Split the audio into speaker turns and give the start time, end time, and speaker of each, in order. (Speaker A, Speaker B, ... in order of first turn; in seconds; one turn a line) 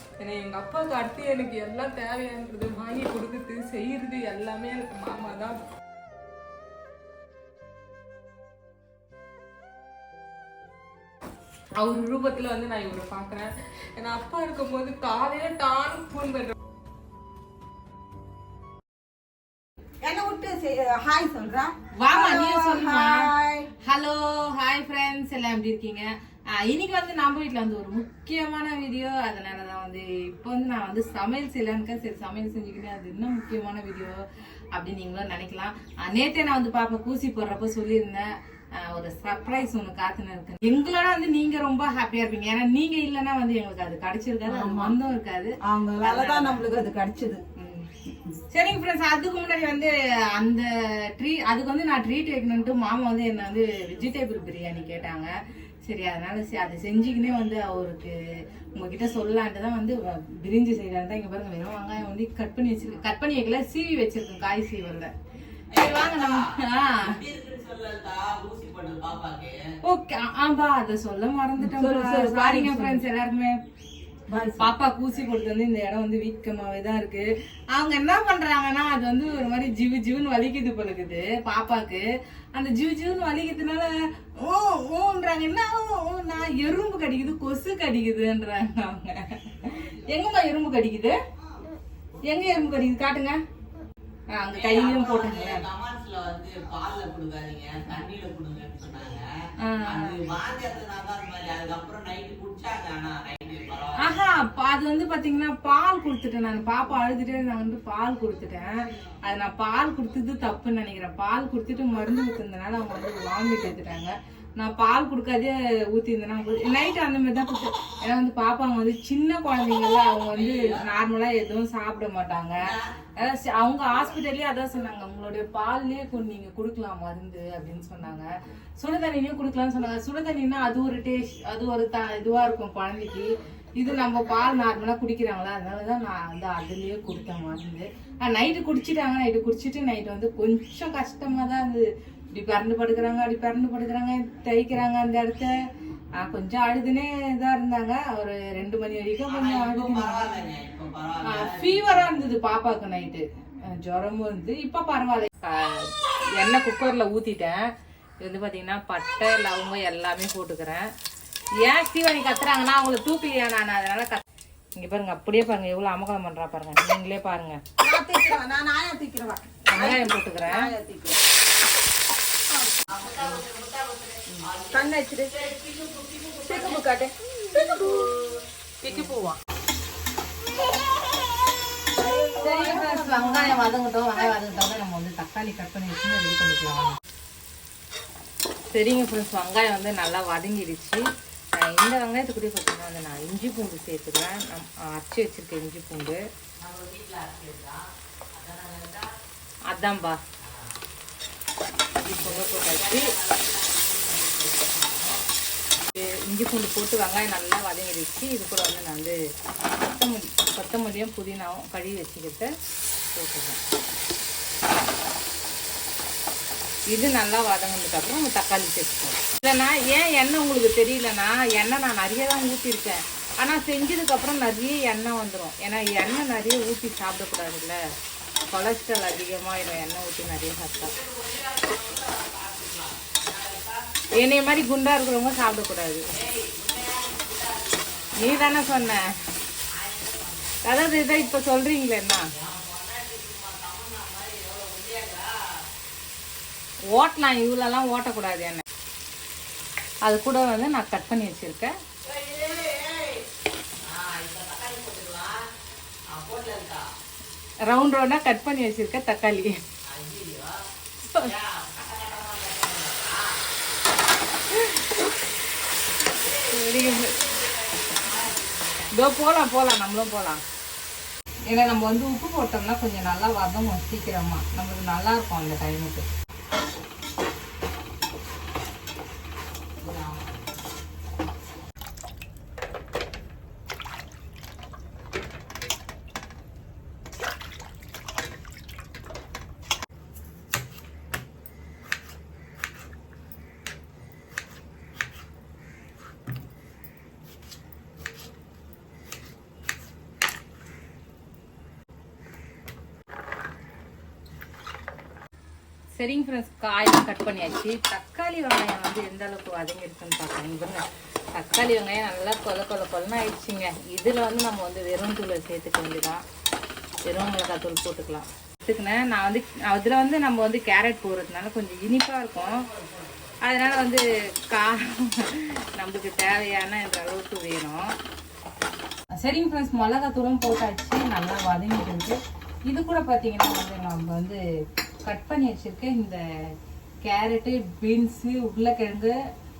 Speaker A: 0.2-5.6
Speaker B: 11.8-13.5
Speaker A: 14.0-15.2
Speaker B: 14.1-16.5
Speaker C: 20.0-23.7
Speaker B: 21.9-23.3
Speaker B: 23.8-34.2
Speaker B: 34.7-46.6
Speaker C: 44.5-45.0
Speaker C: 45.6-47.4
Speaker B: 47.5-47.9
Speaker B: 48.5-55.3
Speaker B: 55.8-58.1
Speaker B: 58.7-65.1
Speaker D: 65.7-69.6
Speaker B: 65.7-67.2
Speaker B: 69.8-73.6
Speaker C: 71.6-73.0
Speaker C: 74.3-74.7
Speaker B: 74.6-91.2
Speaker B: 92.2-93.4
Speaker B: 94.3-95.6
Speaker D: 94.5-99.2
Speaker B: 99.6-100.2
Speaker D: 99.8-104.3
Speaker B: 104.0-145.5
Speaker D: 120.2-120.9
Speaker D: 122.6-123.0
Speaker B: 146.2-150.2
Speaker D: 149.3-152.1
Speaker B: 151.2-157.7
Speaker B: 158.2-160.9
Speaker B: 161.6-164.2
Speaker B: 164.7-167.6
Speaker C: 167.8-171.2
Speaker B: 169.7-170.7
Speaker C: 172.5-172.8
Speaker D: 172.9-176.8
Speaker C: 174.7-175.3
Speaker C: 176.5-178.1
Speaker B: 178.8-179.4
Speaker C: 178.9-179.2
Speaker C: 181.9-183.7
Speaker B: 182.4-187.0
Speaker B: 188.7-191.0
Speaker B: 191.6-196.2
Speaker D: 196.6-197.8
Speaker D: 198.3-199.1
Speaker B: 199.7-200.2
Speaker D: 200.4-200.7
Speaker B: 201.9-203.1
Speaker D: 202.1-205.2
Speaker B: 205.9-209.2
Speaker B: 209.8-212.5
Speaker B: 213.1-213.6
Speaker B: 216.9-227.8
Speaker B: 228.5-230.9
Speaker D: 230.8-233.8
Speaker B: 234.2-236.1
Speaker D: 236.1-239.0
Speaker B: 238.2-239.1
Speaker D: 239.7-241.4
Speaker B: 240.6-242.3
Speaker D: 242.3-245.3
Speaker B: 246.9-248.6
Speaker B: 250.0-251.7
Speaker D: 252.0-253.2
Speaker D: 253.8-255.4
Speaker D: 256.1-256.8
Speaker B: 257.7-259.6
Speaker D: 259.8-260.5
Speaker D: 261.2-263.2
Speaker B: 264.5-264.8
Speaker D: 266.0-269.0
Speaker B: 266.5-267.2
Speaker B: 268.9-270.4
Speaker B: 271.5-276.1
Speaker D: 279.8-280.5
Speaker B: 305.9-310.8
Speaker B: 311.3-316.2
Speaker B: 317.0-322.7
Speaker D: 322.3-323.4
Speaker B: 323.4-327.9
Speaker B: 329.2-334.4
Speaker B: 335.1-336.2
Speaker B: 337.0-339.1